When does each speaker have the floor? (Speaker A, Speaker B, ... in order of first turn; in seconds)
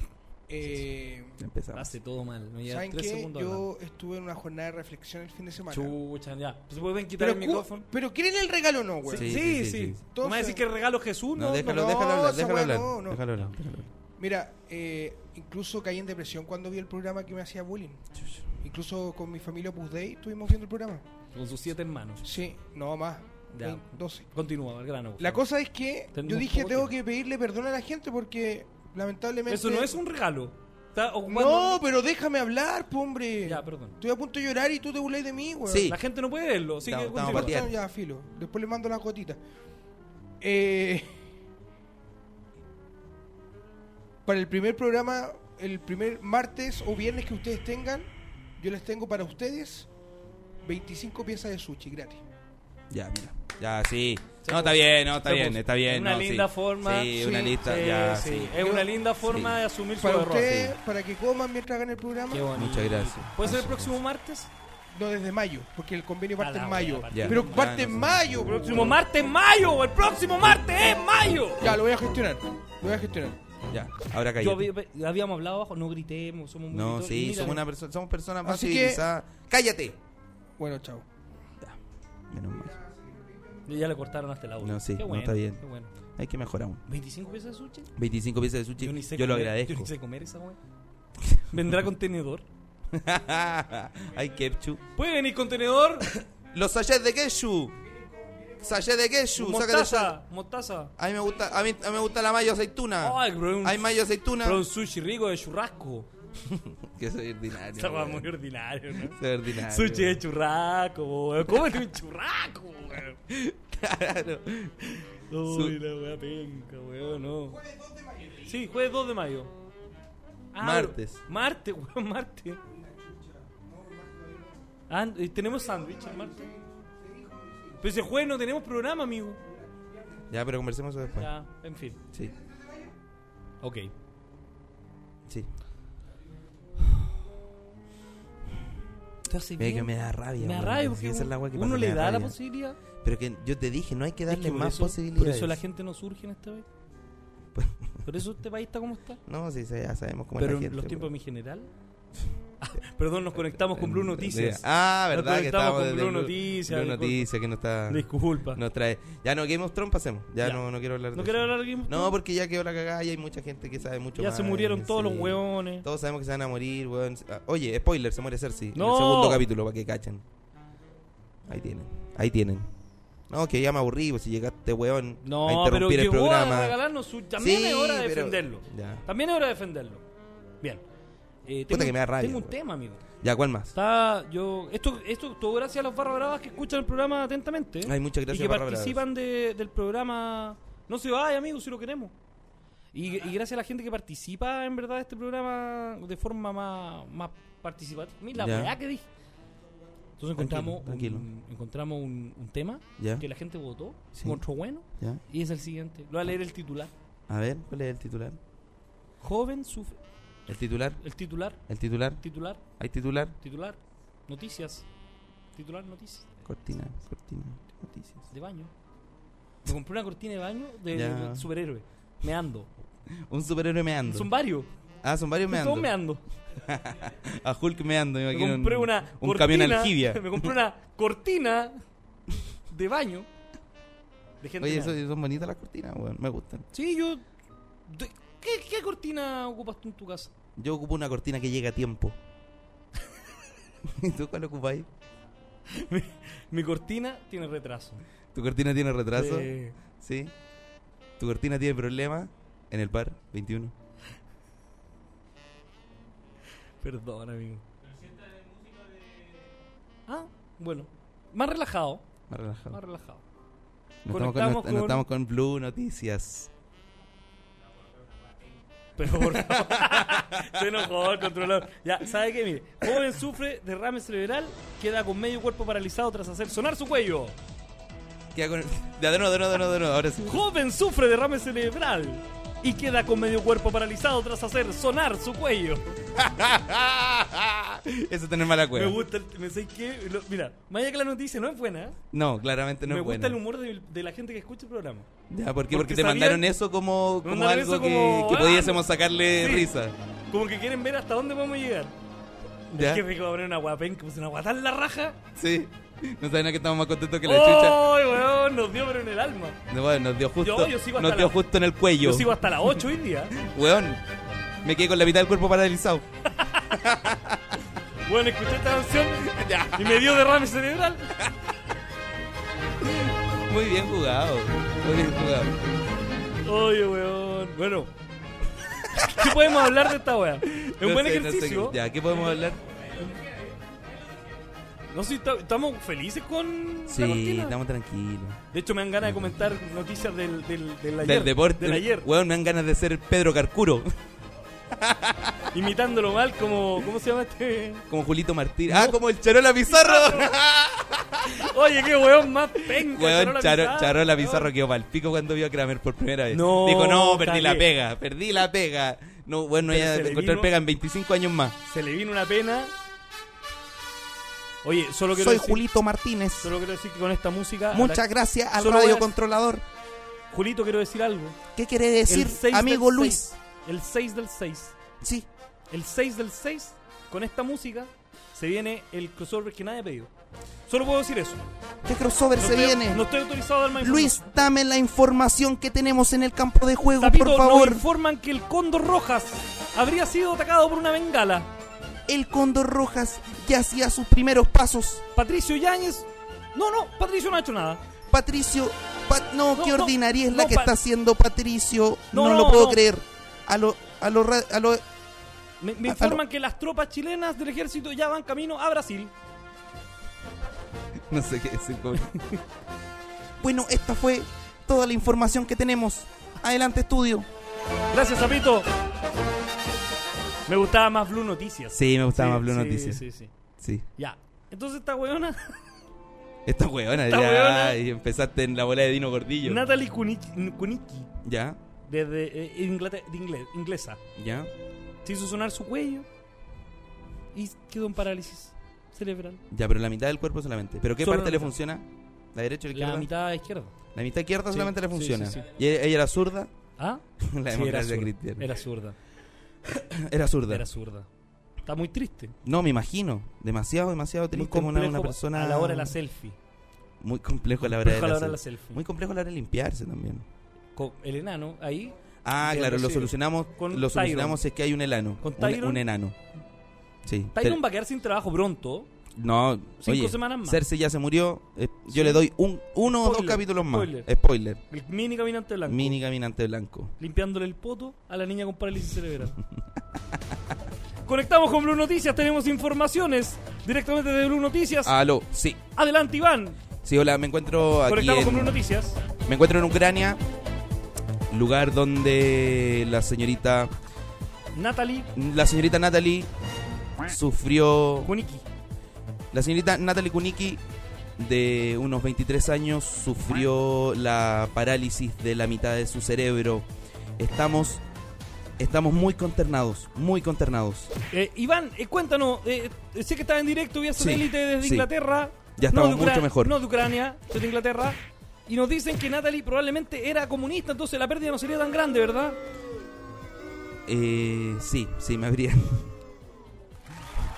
Speaker A: 0.5-1.4, 2.6-6.0, 7.2-9.3, 10.1-10.6, 11.6-13.2, 14.2-18.0, 18.6-21.0, 22.2-24.3, 25.2-30.0, 31.3-35.9, 37.1-39.4, 40.4-41.2, 44.2-49.9, 50.6-52.2, 58.6-58.9, 60.0-62.5, 64.9-69.0, 71.6-73.4, 78.4-79.0, 80.6-81.0, 82.6-83.6, 97.9-98.6, 117.5-118.6, 122.7-124.7, 125.4-127.9, 129.5-130.2, 132.3-132.9
Speaker B: 1.4-1.9, 9.2-10.0, 11.4-13.9, 35.6-36.0, 36.9-37.7, 52.9-59.6, 60.4-60.7, 62.5-64.0, 67.1-68.2, 73.7-74.7, 76.7-80.0, 82.3-82.8, 84.6-85.6, 86.1-86.8, 88.0-89.9, 91.2-91.4, 92.9-94.8, 96.5-97.8, 98.6-100.2, 101.0-104.6, 106.4-108.3, 109.0-110.2, 113.3-115.8, 120.6-121.2, 130.3-131.3, 139.6-142.4, 142.9-145.6, 147.5-148.1, 149.3-151.1, 153.3-170.2, 171.4-172.7, 173.3-176.8, 177.4-179.0, 181.7-182.6, 183.2-183.7, 187.8-189.0, 198.3-198.7, 200.3-201.3, 203.0-203.2, 204.1-205.2, 207.3-208.4, 210.5-211.0, 211.7-212.2, 212.8-213.3, 216.4-218.2, 220.9-221.5, 223.1-224.3, 225.0-225.9, 226.5-230.5, 234.6-236.7, 240.6-242.2, 243.8-244.9, 248.3-250.3, 251.2-253.7, 262.3-262.8, 264.0-266.5, 269.1-271.2, 278.3-280.4, 286.1-289.0, 292.1-293.4, 295.3-299.9, 302.7-303.0, 305.4-307.9, 309.7-312.4, 313.3-314.0, 314.6-316.0, 316.6-317.4, 319.2-320.2, 322.8-325.6, 329.0-329.4, 330.5-332.6, 336.9-338.4, 339.0-339.4, 341.0-343.9, 344.7-345.5, 347.9-351.5, 352.7-361.6, 365.1-366.5, 367.7-369.6, 371.5-373.4, 375.0-375.3, 381.8-383.1, 383.8-387.8, 392.1-395.0, 398.1-404.8, 405.9-406.2, 411.1-412.1, 413.4-417.3, 421.7-423.0, 423.6-423.9, 426.4-429.6, 431.2-431.6, 434.1-434.5, 439.5-443.1, 443.9-446.5, 447.2-448.5, 449.7-450.7, 452.4-456.0, 457.0-460.2, 462.2-466.1, 467.0-467.6, 469.1-474.6, 475.6-476.9, 484.8-485.6, 486.8-488.6, 489.2-490.2, 491.3-493.7, 495.1-496.3, 497.0-498.1, 499.3-500.6, 501.2-506.6, 507.2-507.8, 508.6-510.9, 514.0-514.9, 515.6-516.5, 523.9-525.9
Speaker C: 1.7-3.7, 5.7-7.8, 9.0-12.1, 21.3-22.2, 23.5-25.4, 26.1-26.9, 29.5-31.8, 33.4-34.0, 35.8-37.7, 54.4-60.6, 62.3-64.5, 66.4-71.7, 74.4-77.6, 83.6-85.9, 86.9-87.9, 88.8-90.6, 91.5-92.5, 94.9-96.1, 99.3-100.9, 103.0-106.1, 107.7-113.2, 115.3-117.6, 118.4-119.5, 120.5-122.6, 124.9-126.5, 127.8-129.4, 131.1-132.0, 133.6-133.9, 139.2-142.8, 144.3-146.7, 148.0-149.2, 150.4-151.7, 152.6-157.3, 157.9-158.6, 160.4-162.1, 164.2-165.8, 168.7-169.4, 175.2-180.0, 181.4-183.0, 183.7-192.1, 192.9-199.1, 200.2-206.9, 209.2-210.0, 211.0-211.6, 212.2-212.6, 213.4-214.9, 215.5-216.4, 218.3-218.7, 219.6-222.7, 224.0-224.7, 225.5-226.2, 228.3-231.8, 232.7-233.3, 234.4-235.0, 236.7-237.2, 237.8-240.3, 245.7-248.0, 249.1-249.8, 256.8-257.6, 260.1-262.0, 262.7-263.2, 264.1-265.0, 268.9-277.3, 280.2-286.0, 288.7-292.0, 292.8-295.1, 295.7-296.5, 297.2-298.9, 299.4-299.7, 300.3-301.9, 302.7-305.2, 307.2-309.6, 310.4-311.4, 312.0-313.4, 316.3-316.8, 318.1-321.1, 326.4-327.9, 328.9-331.8, 332.9-333.3, 334.9-337.6, 338.5-342.1, 345.5-347.9, 348.7-348.9, 349.7-350.3, 351.3-354.5, 356.3-357.7, 359.6-360.5, 361.6-362.7, 364.6-365.6, 366.4-369.1, 370.3-371.4, 372.1-374.7, 375.7-380.1, 380.7-381.4, 382.4-384.2, 387.0-391.5, 395.1-397.8, 399.5-400.7, 402.1-402.8, 405.6-409.1, 412.0-412.4, 417.9-418.7, 420.5-423.3, 424.0-425.7, 426.9-427.8, 429.4-431.1, 431.8-434.0, 435.0-436.1, 437.3-439.4, 441.0-441.5, 442.7-443.7, 444.5-445.4, 446.8-448.9, 450.5-451.1, 451.6-452.4, 454.3-456.4, 457.6-458.8, 460.8-464.4, 465.2-465.8, 467.3-468.9, 469.8-470.6, 471.9-472.2, 472.8-474.1, 474.7-476.0, 477.0-479.4, 481.0-484.9, 485.7-486.6, 487.9-489.0, 494.5-495.1, 498.0-498.4, 511.1-522.4